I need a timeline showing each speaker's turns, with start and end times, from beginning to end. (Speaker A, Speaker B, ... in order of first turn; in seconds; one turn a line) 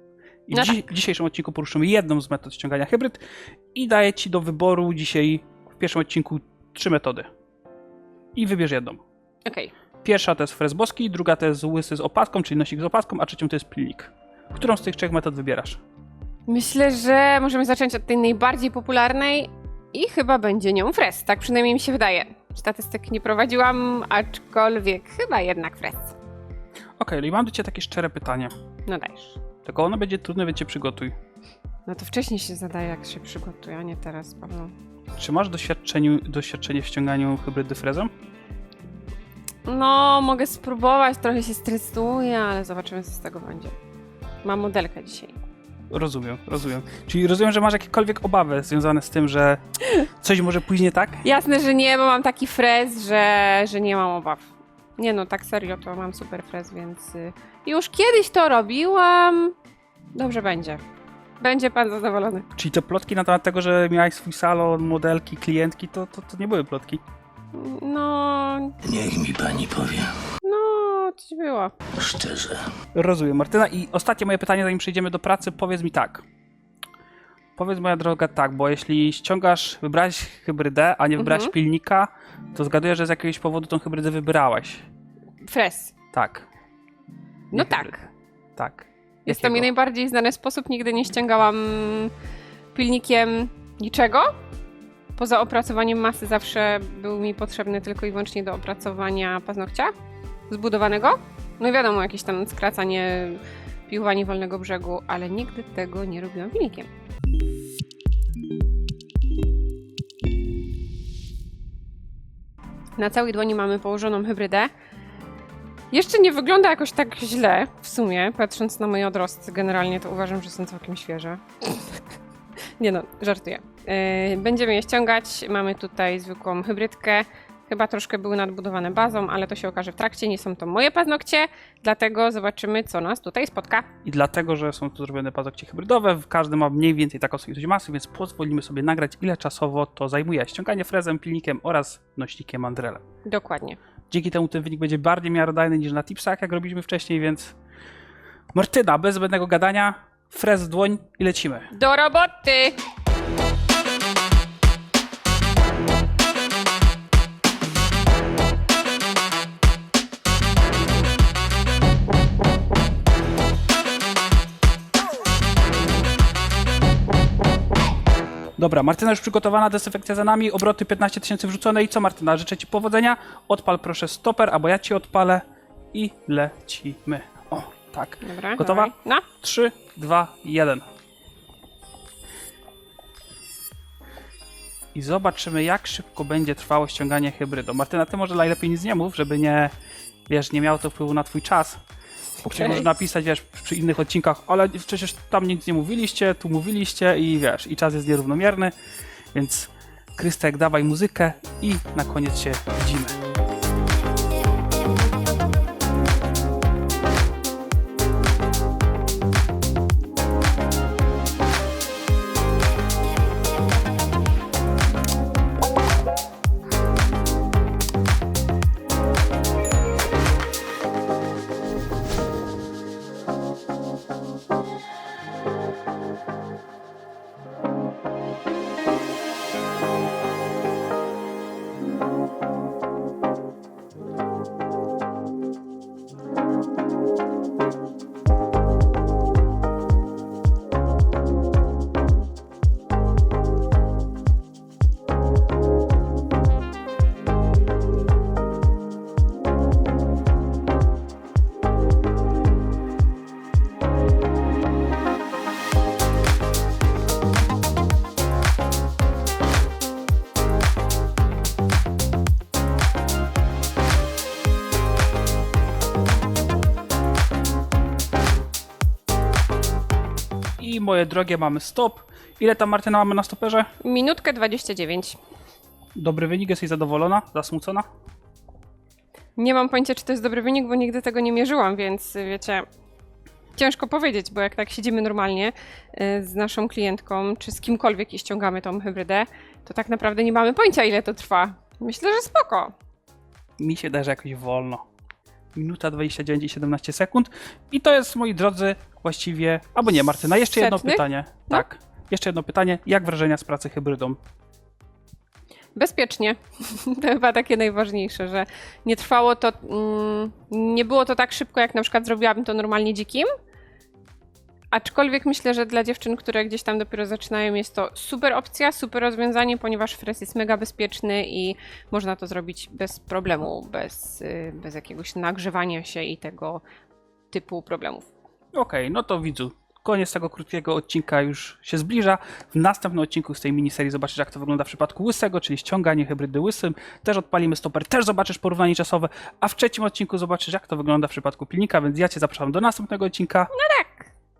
Speaker A: 0.5-3.2
Speaker B: 0.5-0.8
Speaker A: 3.7-7.3
Speaker A: 8.3-9.0
Speaker B: 9.4-9.7
Speaker A: 10.0-15.8
Speaker B: 16.5-26.1
Speaker A: 27.0-28.5
Speaker B: 28.9-29.4
Speaker A: 29.6-31.1
Speaker B: 31.9-34.7
Speaker A: 35.1-38.1
Speaker B: 39.6-43.7
Speaker B: 44.4-45.4
Speaker A: 45.9-51.2
Speaker B: 51.2-59.5
Speaker B: 60.1-60.8
Speaker B: 61.4-62.5
Speaker A: 62.5-67.0
Speaker B: 67.5-68.8
Speaker C: 68.8-70.1
Speaker B: 70.4-71.8
Speaker C: 71.9-72.7
Speaker A: 72.9-76.2
Speaker A: 77.5-84.8
Speaker B: 81.2-81.5
Speaker B: 85.5-85.9
Speaker A: 86.1-86.5
Speaker B: 87.5-87.9
Speaker A: 87.5-89.7
Speaker B: 89.2-92.1
Speaker B: 92.7-94.3
Speaker B: 95.2-99.9
Speaker B: 100.5-106.9
Speaker B: 113.0-114.7
Speaker B: 115.9-122.0
Speaker B: 122.8-133.9
Speaker A: 134.0-143.0
Speaker B: 143.3-143.8
Speaker A: 144.1-147.6
Speaker A: 148.5-151.7
Speaker B: 151.7-152.8
Speaker A: 168.6-180.8
Speaker B: 178.2-179.2
Speaker A: 184.9-189.7
Speaker A: 190.3-191.8
Speaker A: 192.4-198.7
Speaker B: 192.5-192.9
Speaker A: 199.3-203.2
Speaker A: 270.6-273.7
Speaker B: 273.8-275.2
Speaker A: 275.9-277.9
Speaker B: 279.4-282.6
Speaker B: 283.5-292.7
Speaker A: 293.6-294.8
Speaker A: 295.5-304.2
Speaker B: 300.4-301.6
Speaker B: 305.8-313.3
Speaker B: 314.7-326.6
Speaker B: 327.3-328.1
Speaker A: 328.5-343.5
Speaker B: 343.5-344.1